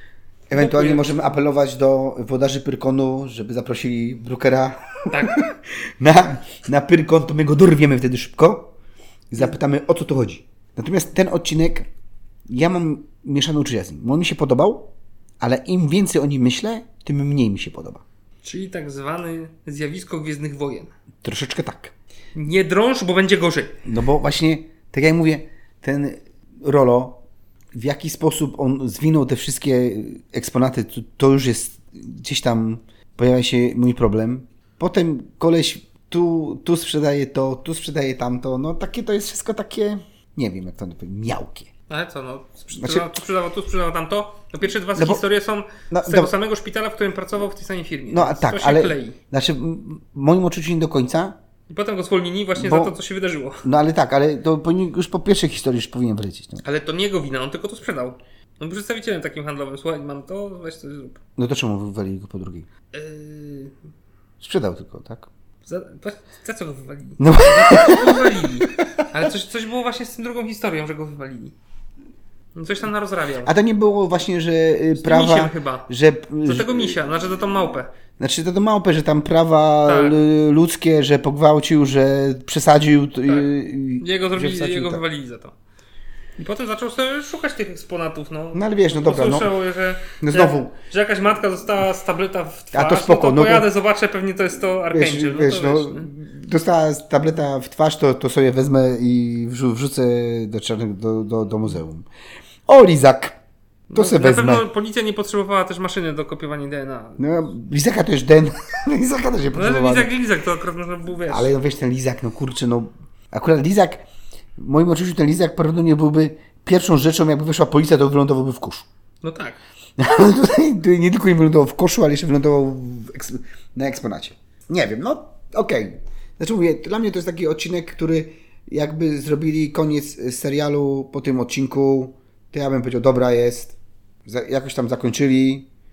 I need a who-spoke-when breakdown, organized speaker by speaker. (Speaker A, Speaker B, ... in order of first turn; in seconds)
Speaker A: 0.5-8.7, 9.3-11.9, 12.5-18.0, 21.2-21.9, 23.9-27.2, 27.7-41.7, 42.8-43.1, 45.0-45.2, 45.9-46.3, 48.1-51.4, 52.6-53.0, 53.6-56.6, 61.4-62.7, 64.4-65.3, 67.2-69.1, 73.4-77.0, 78.2-85.0, 88.5-89.5, 90.2-90.7, 92.7-93.7, 94.9-102.1, 102.7-103.4, 103.9-104.7, 107.2-110.1, 111.3-114.0, 114.6-118.9, 120.0-135.7
Speaker B: 0.5-1.2, 5.1-5.4, 18.4-20.9, 22.4-23.8, 41.9-49.2, 51.7-53.7, 56.6-61.2, 62.9-63.7, 65.7-71.5, 72.5-73.5, 75.0-75.9, 76.4-77.9, 79.8-80.2, 83.2-85.5, 86.4-96.1, 103.9-107.3, 109.5-111.5, 119.2-119.6